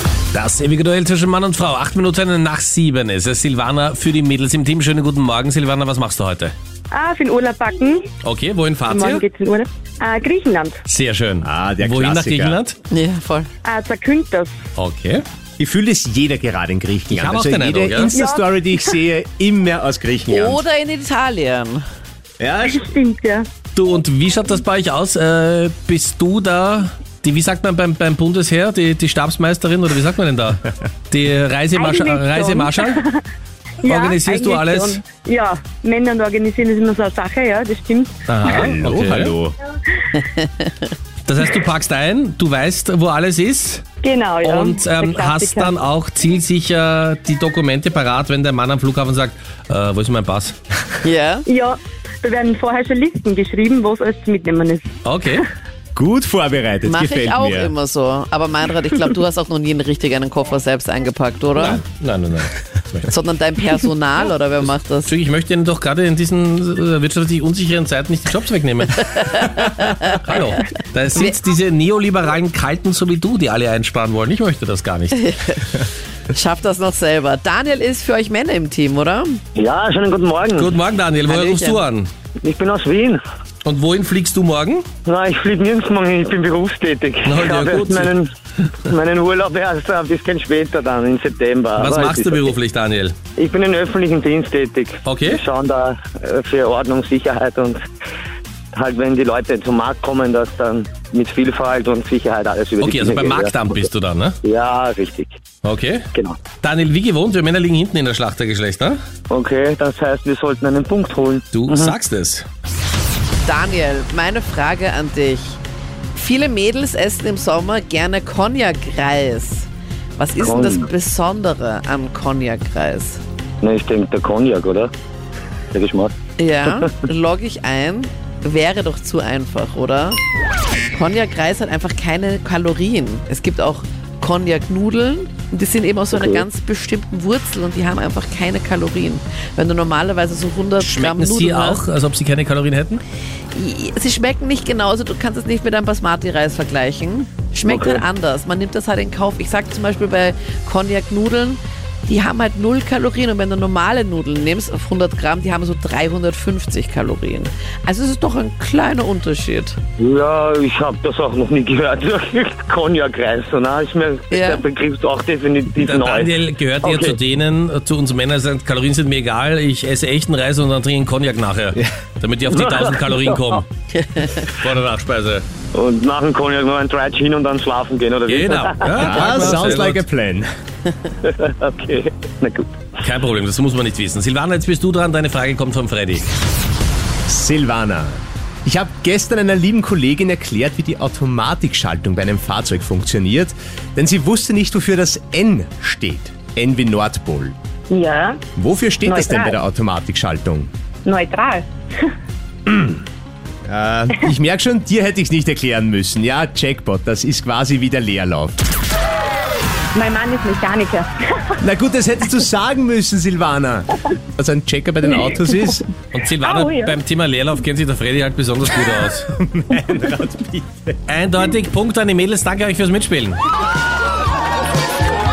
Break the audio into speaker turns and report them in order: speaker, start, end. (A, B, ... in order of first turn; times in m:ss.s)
0:00.3-0:06.5 A
0:06.9-0:08.1 B
0:08.2-0:09.2 A
0:08.9-0:10.8 B
0:10.9-0:12.8 A
0:11.4-0:12.6 C
0:12.9-0:13.5 D
0:13.6-0:14.5 B
0:14.8-0:15.2 A
0:15.6-0:20.6 C
0:17.1-0:18.1 A
0:18.1-0:18.4 B
0:20.3-0:21.8 D
0:22.4-0:22.8 C
0:22.7-0:23.5 B
0:23.8-0:33.0 A
0:31.8-0:33.2 B
0:33.8-0:35.0 A
0:33.9-0:38.1 B
0:38.3-0:39.4 A
0:38.4-0:39.6 C
0:40.2-0:40.9 D
0:41.2-0:43.9 A
0:44.0-0:45.7 B
0:44.4-0:50.6 A
0:51.0-0:51.5 D
0:51.5-0:54.9 B
0:55.0-0:55.4 A
0:56.0-0:57.7 C
0:56.8-1:01.8 D
1:01.6-1:03.1 A
1:03.1-1:05.1 D
1:05.1-1:15.2 A
1:09.1-1:10.4 D
1:15.1-1:19.4 D
1:19.6-1:20.7 E
1:20.6-1:22.1 A
1:21.3-1:21.8 D
1:22.4-1:23.2 E
1:23.6-1:24.9 A
1:25.0-1:28.3 E
1:27.2-1:28.2 A
1:28.8-1:32.5 E
1:31.8-1:33.2 A
1:33.4-1:37.8 E
1:35.0-1:35.4 A
1:38.7-1:43.7 E
1:42.8-1:44.4 A
1:44.4-1:45.4 E
1:45.6-1:46.1 A
1:46.1-1:46.4 E
1:46.6-1:49.0 A
1:49.3-1:51.9 E
1:51.5-1:52.5 A
1:53.4-1:55.6 D
1:56.2-2:03.2 D
2:00.4-2:00.9 E
2:03.6-2:04.9 E
2:05.7-2:06.1 E
2:06.4-2:10.2 D
2:10.9-2:21.8 D
2:16.1-2:16.4 E
2:20.8-2:23.0 A
2:23.5-2:39.8 D
2:27.7-2:28.0 E
2:40.0-2:47.2 E
2:44.3-2:44.6 D
2:45.8-2:53.7 A
2:52.5-2:53.6 E
2:53.9-2:54.5 D
2:54.4-2:55.4 A
2:55.7-2:59.4 E
2:58.3-3:00.0 A
2:59.0-3:00.5 C
3:01.2-3:02.8 E
3:03.0-3:06.3 A
3:07.3-3:17.6 C
3:17.9-3:18.4 B
3:18.6-3:20.7 C
3:19.0-3:19.6 B
3:21.0-3:22.0 B
3:22.7-3:23.0 C
3:23.7-3:28.6 C
3:29.9-3:31.5 B
3:31.6-3:35.8 C
3:36.1-3:39.3 A
3:36.4-3:37.0 B
3:39.3-3:41.0 C
3:41.1-3:43.4 A